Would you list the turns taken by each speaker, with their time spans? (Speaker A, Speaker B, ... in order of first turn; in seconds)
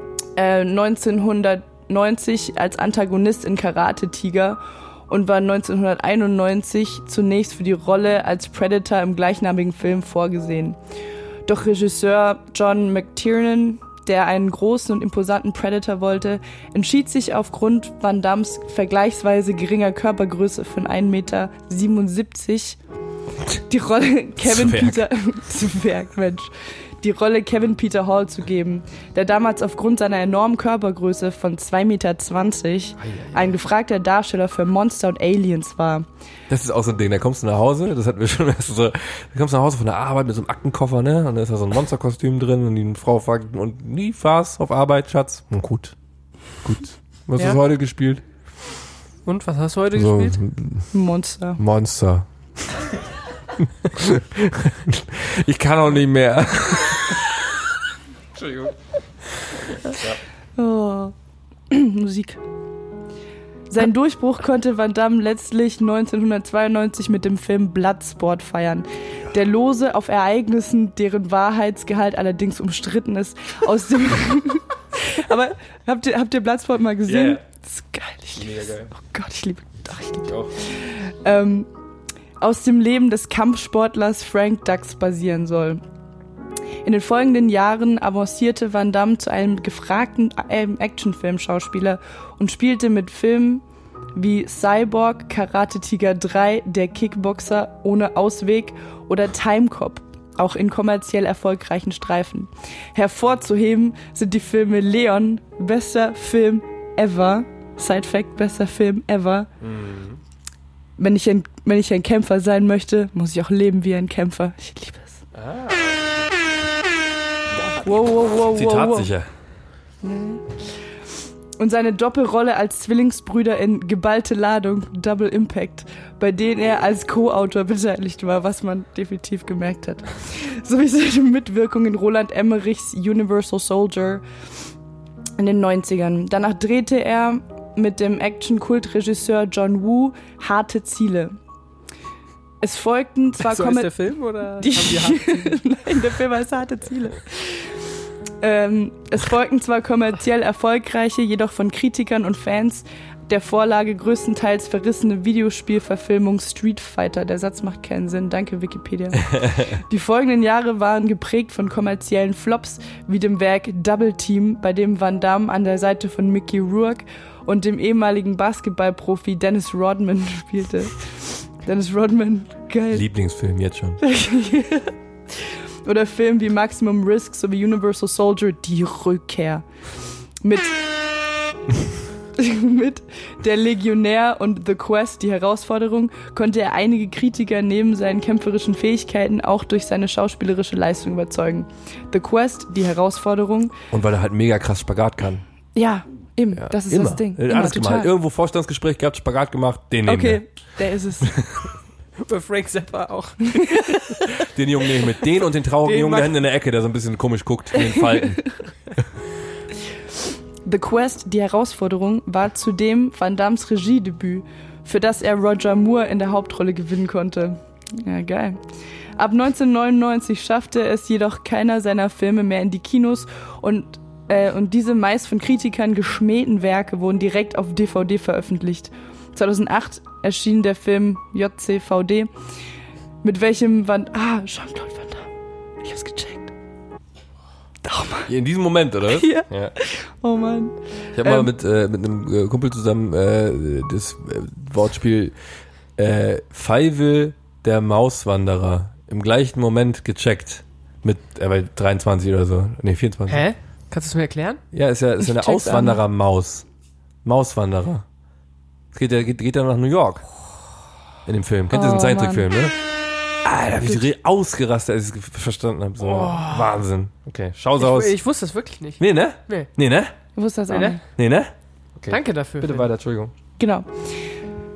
Speaker A: 0.4-10.8, 11.5-22.8, 23.5-36.1, 50.9-51.6, 60.6-61.1, 61.7-62.4, 63.7-81.7, 82.4-85.8, 86.8-93.6, 94.2-109.5, 111.0-115.2, 117.7-119.1, 120.0-120.6, 121.6-134.2, 135.4-141.4, 142.6-147.8, 148.4-173.1, 174.0-179.6, 180.4-180.8, 182.4-193.8, 195.8-198.1, 200.1-201.3, 203.6-204.0, 207.9-208.2, 210.6-218.6, 219.2-232.3, 233.2-235.3, 235.8-236.5, 237.8-238.3, 239.1-241.5, 255.2-256.0, 261.7-262.5, 270.4-271.0, 273.6-273.9
Speaker B: 24.4-25.1, 33.0-33.6, 36.5-45.9, 46.6-48.2, 49.9-50.9, 51.6-52.3, 53.8-57.3, 58.4-58.7, 59.9-60.2, 77.1-77.4, 78.4-78.9, 80.2-80.5, 109.6-110.2, 115.3-116.0, 118.5-119.3, 172.9-174.0, 193.9-195.4, 196.6-200.4, 201.2-201.7, 204.5-208.6, 238.3-239.8, 241.2-245.3, 246.0-253.4, 254.7-256.6, 257.2-258.0, 258.9-260.3, 261.3-262.7, 263.4-268.1, 269.0-270.1, 271.2-273.3
Speaker C: 49.2-50.4, 143.4-145.6, 202.2-204.2, 205.8-206.3, 253.3-254.6, 266.0-266.8, 267.8-269.7, 270.7-271.0, 272.1-272.9